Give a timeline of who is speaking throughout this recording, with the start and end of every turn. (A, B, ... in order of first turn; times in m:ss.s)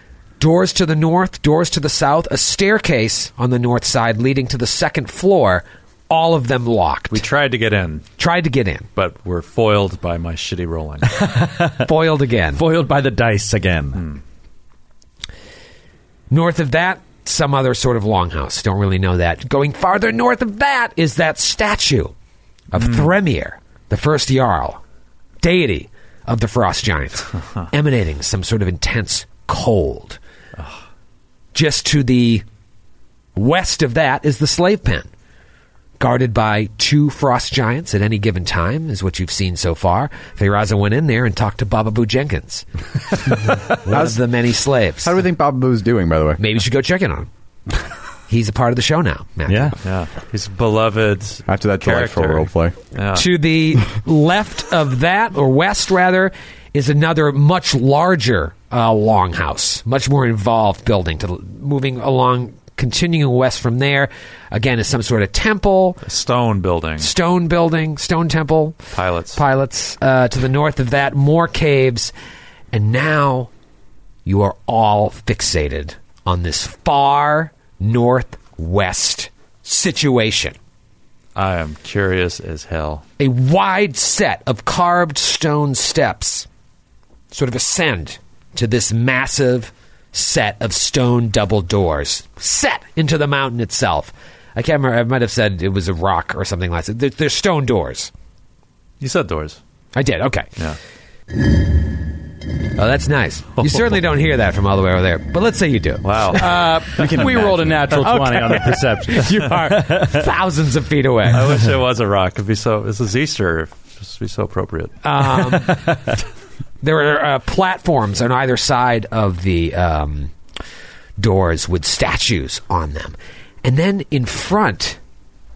0:00.4-0:07.2 A
0:07.1-0:08.1 B
0:08.2-0:08.9 A
0:09.0-0:11.1 B
0:11.2-0:11.9 C
0:11.8-0:12.6 A
0:12.6-0:14.0 C
0:14.0-0:14.2 B
0:16.3-0:22.1 A
0:22.7-0:24.8 A
0:22.8-0:23.1 B
0:25.4-0:30.2 A
0:31.5-0:32.4 A
0:33.4-0:35.1 A
0:36.0-0:42.6 A
0:43.8-0:45.1 A
0:43.9-0:44.2 D
0:45.0-0:46.4 D
0:46.4-0:47.3 A
0:48.3-0:49.8 A
0:49.5-0:49.8 C
0:49.8-0:53.3 B
0:51.5-0:52.8 D
0:53.1-1:06.0 A
1:06.0-1:07.1 B
1:07.0-1:08.8 A
1:08.9-1:09.4 B
1:09.3-1:12.1 A
1:12.7-1:13.5 A
1:14.2-1:20.6 A
1:21.4-1:23.0 B
1:23.2-1:26.5 A
1:27.3-1:38.1 A
1:39.0-1:39.6 B
1:39.9-1:40.5 A
1:42.8-1:46.5 A
1:46.0-1:48.4 B
1:46.4-1:50.2 C
1:47.1-1:47.5 D
1:48.1-1:51.4 A
1:51.3-1:55.0 B
1:55.0-1:55.9 A
1:55.6-1:56.0 C
1:56.8-2:00.3 A
2:01.2-2:05.0 A